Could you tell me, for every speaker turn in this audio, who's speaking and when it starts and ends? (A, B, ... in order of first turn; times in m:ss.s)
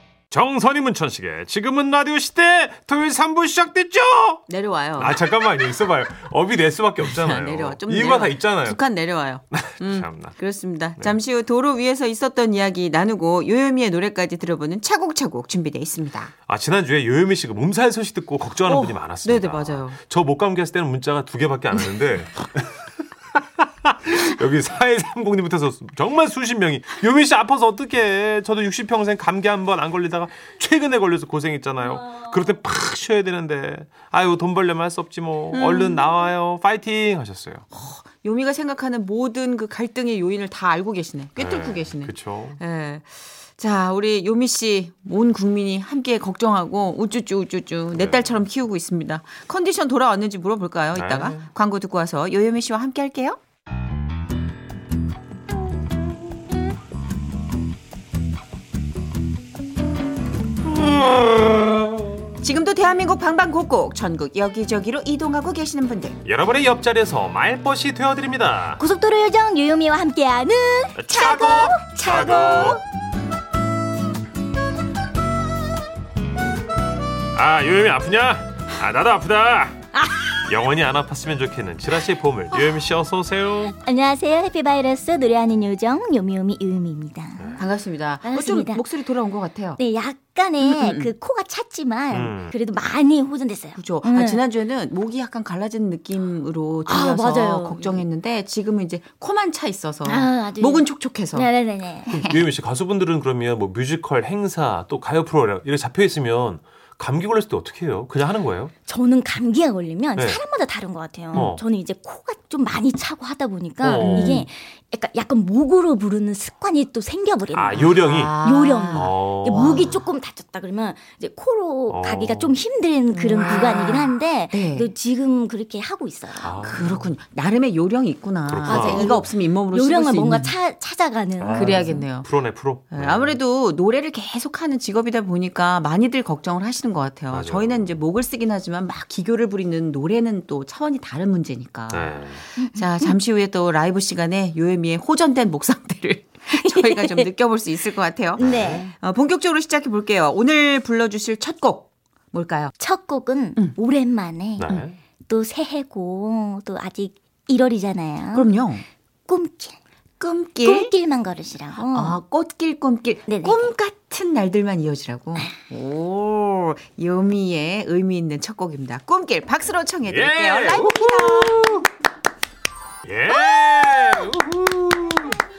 0:00.3-0:04.4 A
0:04.5-0:05.2 B
0:05.0-0:08.8 A
0:07.0-0:16.3 B
0:09.5-0:10.4 A
0:16.5-0:37.6 A
0:18.6-0:20.0 B
0:35.5-0:36.0 B
0:37.7-0:53.4 B
0:41.4-0:42.6 A
0:47.9-0:48.4 A
0:50.9-0:51.4 A
1:00.7-1:02.3 A
1:02.4-1:06.2 B
1:06.2-1:08.8 A
1:08.8-1:12.8 C
1:10.9-1:12.8 A
1:17.3-1:19.8 A
1:20.0-1:20.3 C
1:20.5-1:23.7 A
1:23.7-1:27.6 C
1:27.4-1:27.6 A
1:27.6-1:29.8 B
1:28.2-1:28.8 C
1:29.8-1:34.4 C
1:30.6-1:31.1 B
1:32.1-1:32.6 A
1:33.7-1:41.5 B
1:36.8-1:38.0 C
1:40.0-1:42.2 C
1:42.1-1:42.4 B
1:42.2-1:48.7 A
1:48.9-2:06.7 C
1:50.2-1:50.4 A
1:51.3-1:51.6 A
1:53.8-1:54.5 A
1:54.0-1:54.4 B
1:57.5-1:58.4 A
1:57.7-2:00.0 B
1:58.9-1:59.9 A
2:01.9-2:02.6 A
2:03.1-2:04.9 B
2:06.4-2:07.1 A
2:06.6-2:10.6 B
2:08.5-2:09.2 A
2:08.7-2:12.0 C
2:11.4-2:13.4 A
2:11.6-2:12.3 B
2:12.9-2:32.7 B
2:17.3-2:17.9 A
2:21.9-2:22.4 A
2:22.6-2:23.1 C
2:26.6-2:27.3 C
2:28.4-2:28.9 C
2:28.4-2:28.9 A
2:32.8-2:38.5 C
2:34.6-2:35.0 A
2:38.3-2:38.9 B
2:39.3-2:39.8 C
2:40.2-2:40.9 B
2:40.6-2:42.2 C
2:41.8-2:51.6 B
2:43.3-2:43.7 C
2:50.0-2:51.9 A
2:53.0-2:55.4 A